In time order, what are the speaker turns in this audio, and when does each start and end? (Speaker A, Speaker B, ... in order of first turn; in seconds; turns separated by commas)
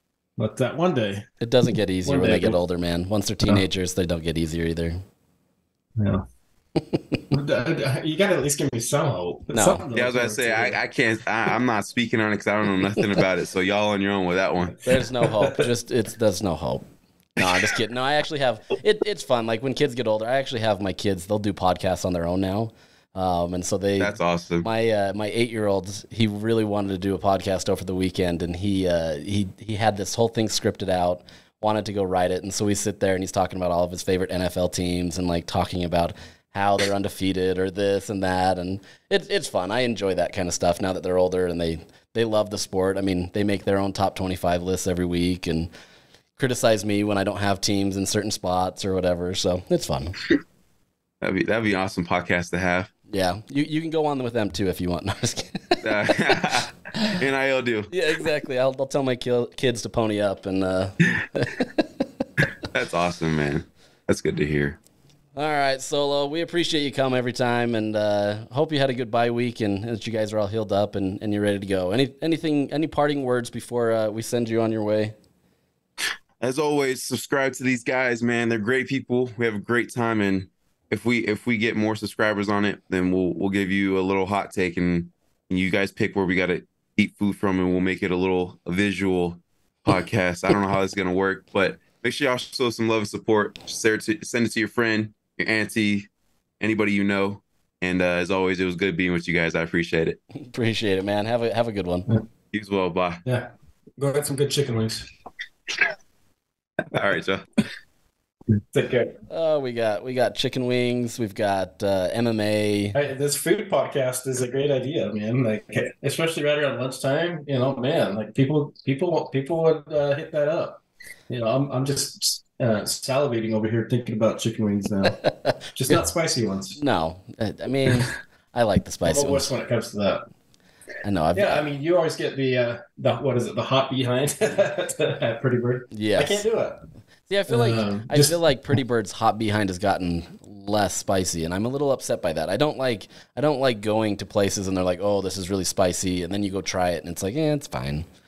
Speaker A: 0.4-1.3, Speaker B: 1.4-5.0, Speaker A: 2.0-2.6, Speaker A: 6.0-6.3, Speaker B: 6.8-7.2, Speaker A: 7.3-10.8, Speaker B: 9.5-9.8, Speaker C: 9.9-14.8, Speaker B: 14.8-16.8, Speaker B: 17.4-45.7, Speaker C: 24.0-24.7, Speaker B: 46.4-50.2, Speaker C: 51.2-52.9, Speaker B: 53.1-55.8, Speaker C: 55.8-57.9, Speaker B: 57.9-62.0, Speaker C: 62.6-64.8, Speaker B: 65.3-75.2, Speaker C: 76.4-96.1, Speaker C: 96.6-100.2, Speaker B: 100.3-102.1, Speaker C: 102.5-103.2, Speaker A: 103.3-105.1, Speaker C: 106.9-107.5, Speaker A: 108.6-109.2, Speaker B: 109.3-113.0, Speaker A: 112.9-125.2, Speaker B: 125.2-126.0, Speaker A: 125.7-126.8, Speaker B: 126.8-129.5, Speaker A: 129.1-130.2, Speaker B: 131.0-131.7, Speaker A: 131.3-136.8, Speaker B: 135.9-136.4, Speaker B: 137.3-148.1, Speaker A: 137.5-138.4